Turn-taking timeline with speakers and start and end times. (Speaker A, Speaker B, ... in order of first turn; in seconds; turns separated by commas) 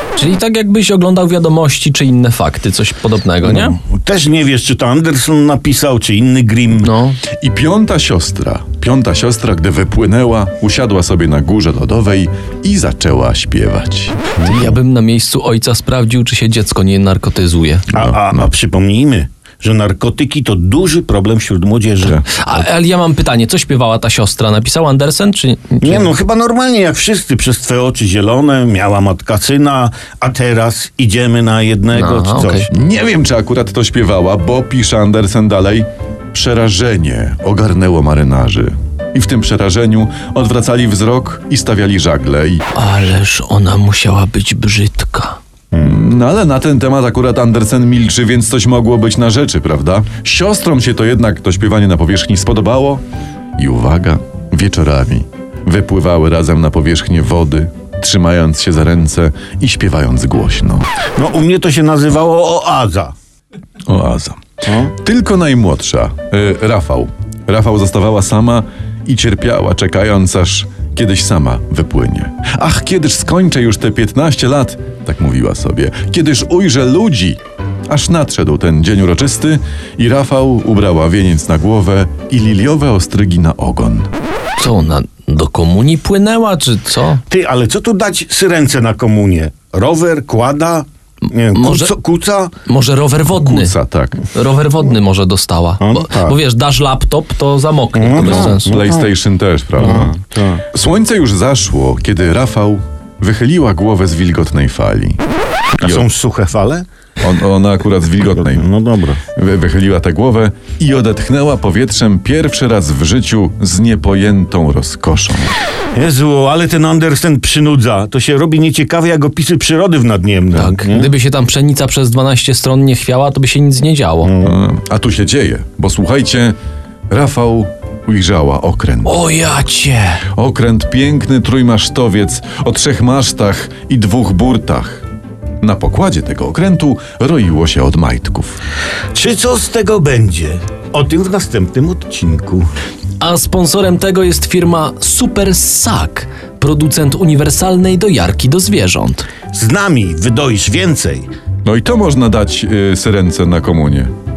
Speaker A: 0.1-3.8, Speaker B: 3.4-6.9, Speaker A: 6.8-7.2, Speaker C: 7.3-14.2, Speaker A: 14.4-17.9, Speaker B: 17.9-22.2, Speaker C: 18.0-18.4, Speaker A: 22.2-26.1, Speaker B: 25.8-32.7, Speaker A: 31.9-32.7, Speaker C: 32.7-42.6, Speaker A: 42.7-45.4, Speaker C: 45.7-53.0, Speaker C: 53.6-60.9, Speaker B: 61.2-63.1, Speaker C: 63.9-84.1, Speaker A: 84.6-87.2, Speaker B: 87.3-92.5, Speaker A: 91.5-91.9, Speaker A: 92.6-98.8, Speaker C: 93.3-94.3, Speaker B: 95.8-96.4, Speaker B: 97.9-99.1, Speaker C: 98.2-100.2, Speaker B: 99.8-100.6, Speaker C: 100.7-105.2, Speaker B: 105.8-106.8, Speaker C: 105.8-106.0, Speaker C: 107.2-108.7, Speaker B: 108.5-109.2, Speaker C: 109.3-115.5, Speaker B: 115.9-121.1, Speaker A: 120.5-124.4, Speaker B: 124.2-124.5, Speaker C: 124.4-126.5, Speaker C: 127.1-129.2, Speaker A: 129.0-130.2, Speaker C: 130.3-135.0, Speaker C: 135.6-138.6, Speaker B: 139.1-142.7, Speaker A: 143.2-149.3, Speaker B: 149.5-151.3, Speaker C: 151.6-154.1